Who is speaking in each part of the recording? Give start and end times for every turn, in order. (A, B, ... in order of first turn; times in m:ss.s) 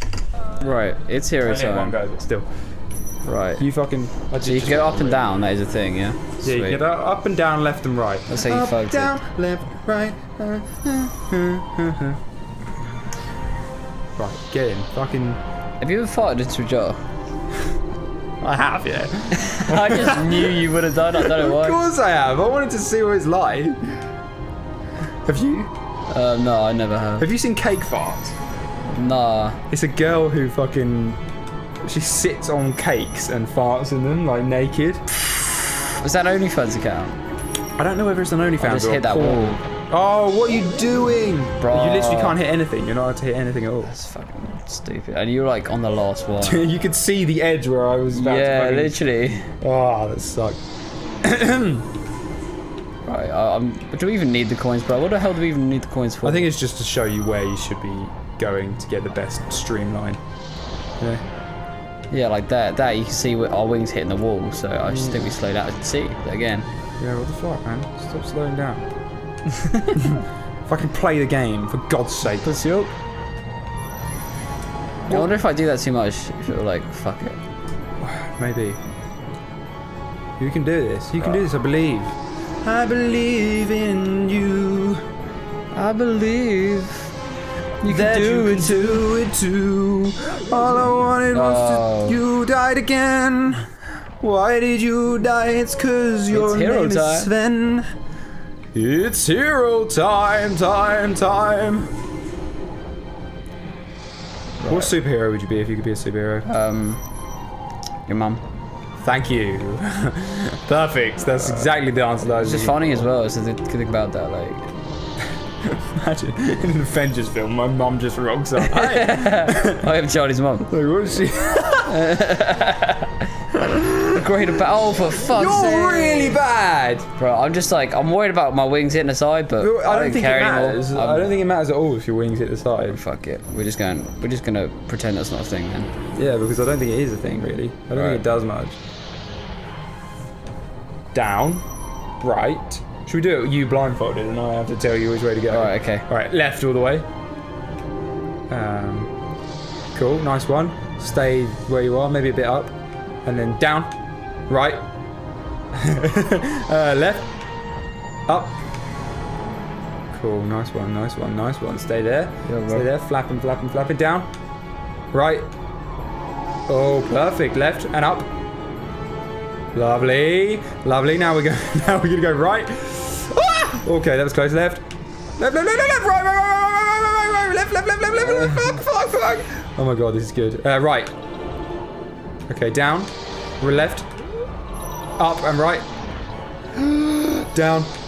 0:00.6-0:02.0 A
0:01.4-0:02.5 B
0:03.2-0:03.6 A
0:03.6-0:05.3 B
0:04.4-0:06.8 A
0:06.4-0:12.2 B
0:08.3-0:09.2 A
0:14.2-0:15.4 B
0:15.8-0:17.0 A
0:18.4-0:23.8 B
0:19.3-0:21.8 A
0:25.3-0:25.7 B
0:26.1-0:27.3 A
0:27.2-0:28.4 B
0:28.9-0:29.6 A
0:29.7-0:31.2 B
0:31.9-0:35.0 B
0:35.3-0:37.2 A
0:37.8-0:43.9 B
0:38.6-0:39.6 A
0:41.6-0:42.4 A
0:43.8-0:46.7 A
0:46.4-0:49.0 B
0:48.1-0:49.5 A
0:49.6-0:50.6 B
0:51.2-0:51.9 B
0:53.0-0:56.5 A
0:56.2-1:00.2 B
1:02.1-1:06.7 A
1:04.9-1:05.4 B
1:07.0-1:08.9 B
1:09.6-1:10.0 A
1:10.0-1:12.6 B
1:12.4-1:12.9 A
1:15.1-1:15.3 B
1:15.1-1:17.4 A
1:18.0-1:18.8 B
1:20.4-1:25.0 B
1:25.7-1:27.1 A
1:27.8-1:29.1 A
1:27.8-1:33.6 B
1:31.3-1:32.2 A
1:34.2-1:37.9 B
1:36.3-1:37.3 A
1:38.8-1:41.9 B
1:44.6-1:44.9 A
1:44.7-1:46.5 B
1:46.5-1:47.0 A
1:48.1-1:48.4 A
1:49.0-1:53.1 B
1:51.4-1:51.7 A
1:52.2-1:54.7 A
1:55.8-1:59.8 B
1:58.6-2:00.7 A
2:00.7-2:01.9 B
2:01.9-2:06.4 A
2:03.5-2:07.1 B
2:07.2-2:11.4 A
2:09.6-2:13.0 B
2:12.8-2:15.9 A
2:16.2-2:18.8 B
2:17.9-2:18.2 A
2:21.1-2:21.6 B
2:22.2-2:27.1 B
2:25.5-2:26.1 A
2:28.5-2:29.1 B
2:29.9-2:32.7 B
2:33.3-2:33.9 B
2:34.5-2:34.8 B
2:35.8-2:37.3 B
2:38.3-2:38.6 B
2:40.1-2:44.3 B
2:42.5-2:42.9 A
2:45.1-2:45.5 B
2:46.7-2:48.3 B
2:49.7-2:54.8 B
2:55.4-3:01.1 B
2:58.2-2:58.8 A
3:02.5-3:04.1 B
3:05.2-3:05.8 B
3:06.7-3:07.9 B